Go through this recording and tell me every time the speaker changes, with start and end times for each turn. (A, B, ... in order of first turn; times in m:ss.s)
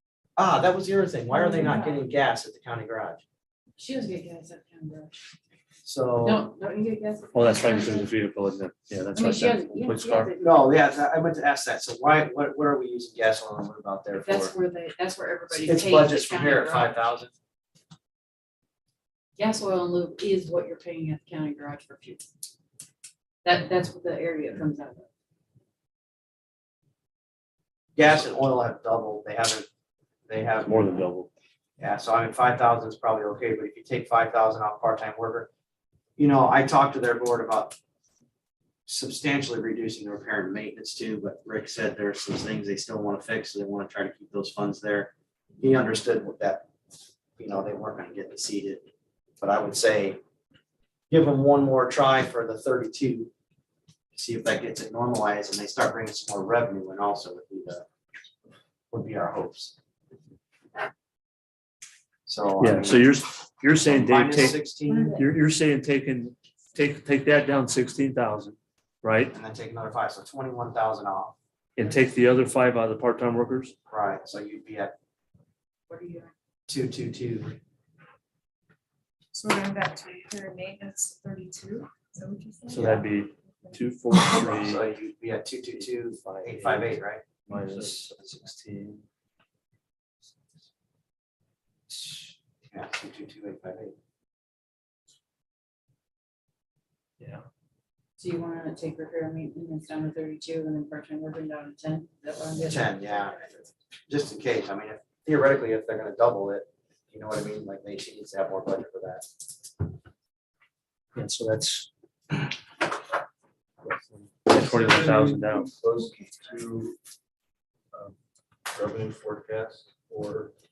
0:00.4-0:03.2 A
0:01.3-0:02.1 B
0:03.8-0:05.2 B
0:05.8-0:06.5 A
0:06.2-0:08.1 B
0:07.3-0:10.3 C
0:09.1-0:10.6 B
0:10.4-0:14.5 A
0:14.1-0:17.0 B
0:15.6-0:17.3 A
0:19.4-0:22.2 B
0:23.4-0:25.1 B
0:28.0-0:29.7 A
0:30.3-0:31.1 A
0:30.6-0:31.3 C
0:31.8-0:35.5 A
0:36.2-0:37.8 A
0:38.8-0:46.6 A
0:47.4-0:48.9 A
0:49.4-0:50.2 A
0:51.1-0:53.3 A
0:54.1-0:57.8 A
0:58.9-0:59.8 A
1:02.2-1:03.1 A
1:02.6-1:04.6 C
1:03.8-1:05.2 A
1:04.9-1:05.2 B
1:05.1-1:09.3 C
1:09.3-1:11.4 A
1:11.8-1:13.7 C
1:13.9-1:14.9 A
1:15.9-1:16.3 B
1:16.7-1:17.6 A
1:19.3-1:22.9 D
1:22.7-1:23.0 A
1:22.7-1:24.8 C
1:24.3-1:27.2 A
1:25.8-1:29.0 C
1:32.7-1:33.9 A
1:37.2-1:37.4 C
1:38.2-1:43.4 B
1:42.6-1:49.2 A
1:51.1-1:51.9 C
1:54.4-1:55.7 C
1:54.9-1:56.9 E
1:58.7-2:00.5 E